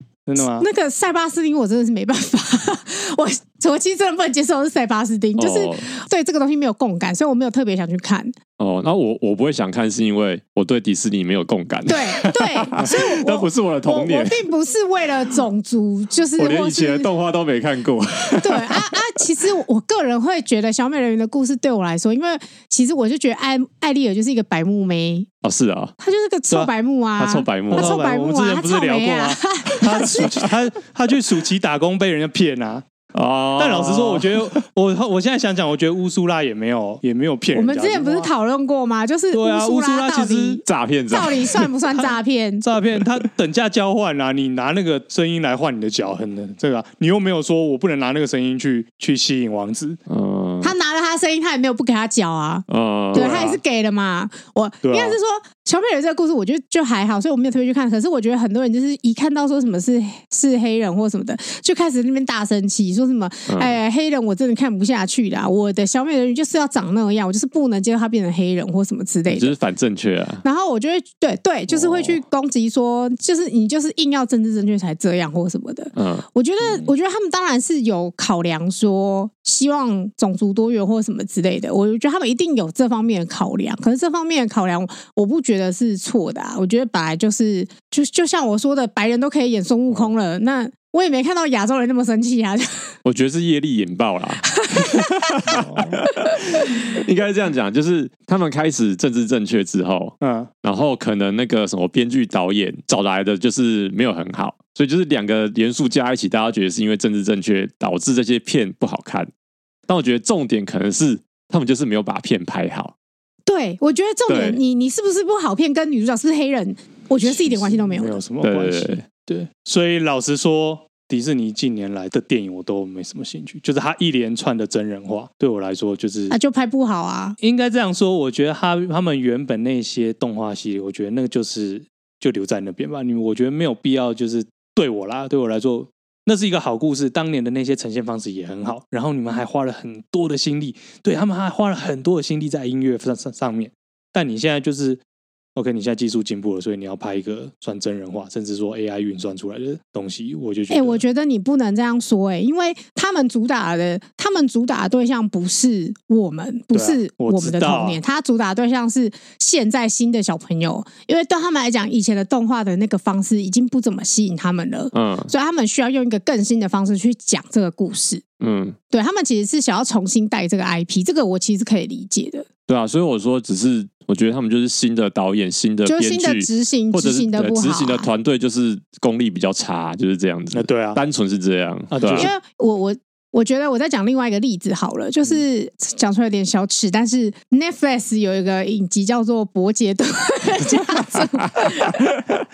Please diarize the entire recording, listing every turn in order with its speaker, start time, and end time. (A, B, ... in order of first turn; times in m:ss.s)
0:00.3-0:00.7 A
0:00.4-0:08.3 B
0:05.4-0:05.8 C
0:08.6-0:14.4 C
0:11.9-0:17.1 B
0:16.4-0:19.0 C
0:18.4-0:25.3 B
0:25.4-0:25.9 C
0:26.0-0:30.4 B
0:27.2-0:27.9 C
0:27.7-0:32.9 A
0:33.1-0:34.5 C
0:33.6-0:38.3 A
0:37.5-0:42.6 B
0:39.3-0:40.6 A
0:40.6-0:41.7 C
0:42.6-0:50.0 A
0:50.1-0:50.7 C
0:50.6-1:09.5 B
0:52.7-0:53.5 C
0:53.1-0:53.6 A
0:54.8-0:55.2 A
1:03.5-1:03.8 C
1:09.3-1:10.4 C
1:10.4-1:32.9 B
1:11.7-1:12.2 A
1:16.0-1:16.2 C
1:16.6-1:16.9 A
1:33.0-1:49.3 C
1:34.5-1:35.4 B
1:35.5-1:36.0 A
1:36.1-1:37.0 B
1:40.2-1:40.5 A
1:49.9-1:52.9 C
1:53.5-1:58.2 B
1:54.3-1:54.6 C
1:57.2-2:06.4 A
1:58.4-1:59.0 C
2:06.3-2:07.4 B
2:07.4-2:25.0 A
2:25.5-2:31.0 A
2:30.7-2:48.2 B
2:36.7-2:38.0 A
2:44.9-2:45.3 C
2:48.4-2:48.8 C
2:48.9-2:52.5 B
2:52.7-3:02.3 C
2:55.8-2:58.1 B
3:00.5-3:01.0 A
3:01.9-3:02.3 A
3:02.1-3:12.0 B